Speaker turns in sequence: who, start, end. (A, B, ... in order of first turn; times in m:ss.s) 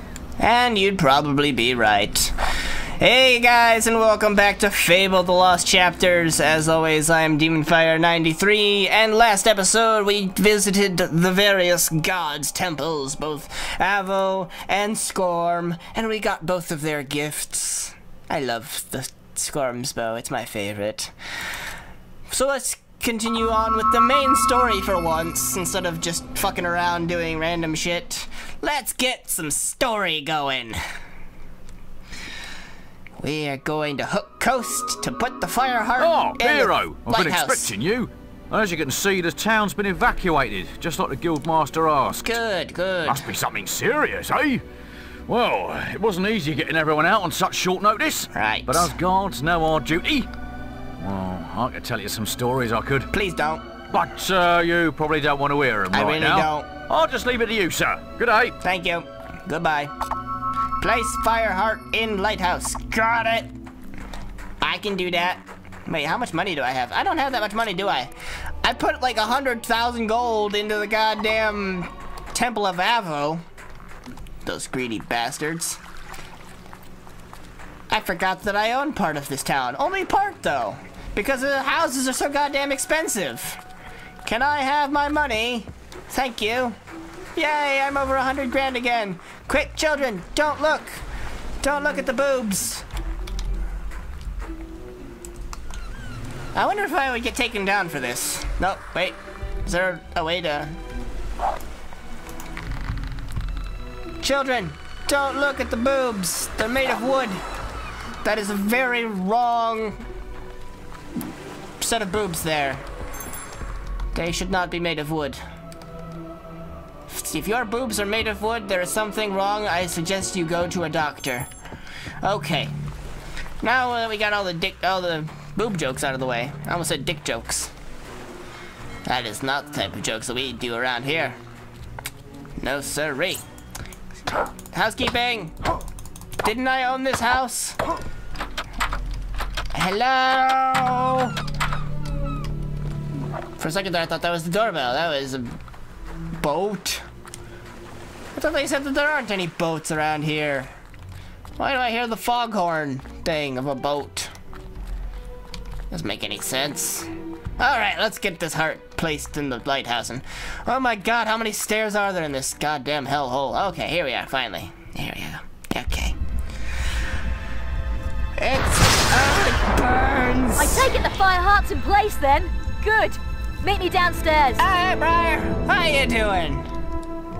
0:00.4-0:02.3 A
0:03.0-0:21.1 A
0:22.3-0:30.8 A
0:33.2-0:37.7 A
0:36.0-0:42.3 B
0:42.1-0:43.3 A
0:43.0-0:44.6 B
0:45.3-0:50.3 B
0:48.3-0:48.9 A
0:51.0-0:53.1 B
0:53.1-0:53.6 A
0:53.9-0:58.6 B
0:55.9-0:56.7 A
0:58.6-0:59.9 A
1:00.8-1:03.5 A
1:04.6-1:08.1 A
1:08.6-1:13.4 A
1:14.4-1:15.8 A
1:17.9-1:23.6 A
1:24.2-1:26.8 A
1:27.4-1:31.0 A
1:31.6-1:32.8 A
1:36.5-1:40.8 A
1:44.2-1:47.4 A
1:48.2-1:50.0 A
1:51.8-1:52.8 A
1:54.1-1:55.4 A
1:57.1-2:01.5 A
2:02.2-2:02.7 A
2:03.6-2:07.7 A
2:09.0-2:11.4 A
2:12.6-2:13.4 A
2:14.7-2:15.6 A
2:16.4-2:17.8 A
2:19.7-2:21.3 A
2:23.6-2:25.6 A
2:26.3-2:27.0 A
2:28.3-2:30.7 A
2:31.6-2:34.3 A
2:35.9-2:46.2 A
2:48.4-2:50.9 A
2:50.6-2:54.6 C
2:54.6-2:56.7 A